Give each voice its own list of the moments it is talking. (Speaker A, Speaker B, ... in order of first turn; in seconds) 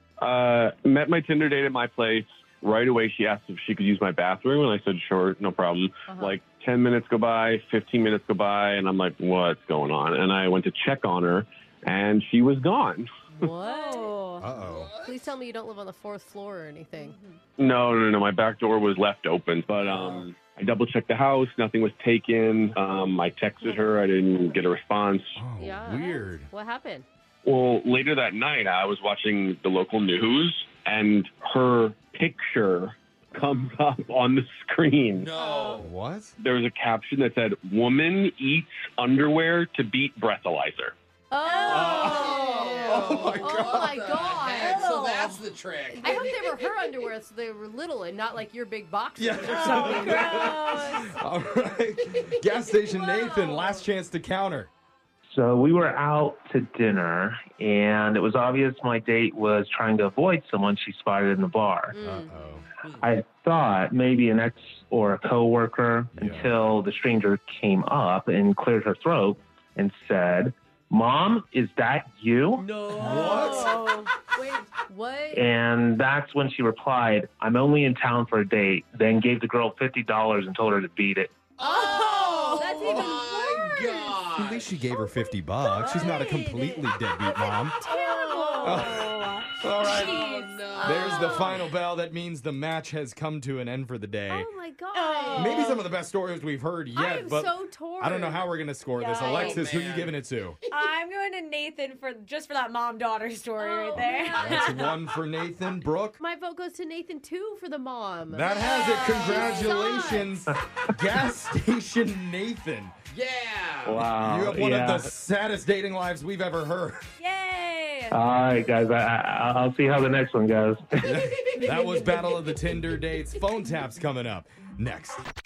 Speaker A: 0.2-13.1, 17.6-25.4, 27.4-35.3, 36.4-40.9
Speaker B: 6.1-6.4, 13.3-14.1, 15.0-17.1, 25.6-27.1, 35.4-35.8, 41.3-44.9, 46.0-50.5, 61.9-62.3, 73.0-75.5, 81.6-84.2, 85.2-89.0, 90.7-91.5, 94.3-95.7, 96.9-98.5, 103.6-104.9, 106.2-109.8
Speaker C: 13.6-14.5, 16.9-17.4, 41.4-41.9, 44.6-45.3, 49.7-51.0, 53.2-53.7, 82.5-82.8, 85.8-86.5, 87.8-90.2, 90.8-91.2, 94.9-95.8, 99.0-99.6, 100.7-104.8, 108.6-110.2, 117.2-118.2
Speaker D: 14.4-14.9, 25.4-26.5, 35.8-36.4, 41.7-43.9, 49.2-54.7, 62.0-62.7, 66.2-66.5, 73.0-73.7, 84.4-87.8, 88.6-90.2, 90.8-94.5, 95.3-100.6, 104.4-106.2, 108.3-112.9, 114.1-117.1, 121.0-125.3
Speaker E: 14.5-15.4, 19.8-20.3, 35.1-35.9, 41.7-46.5, 72.6-73.6, 81.6-84.8, 89.7-91.7, 99.2-100.2, 113.1-114.1
Speaker F: 55.3-61.9, 63.0-72.6, 75.3-81.3, 113.8-115.1, 118.1-121.7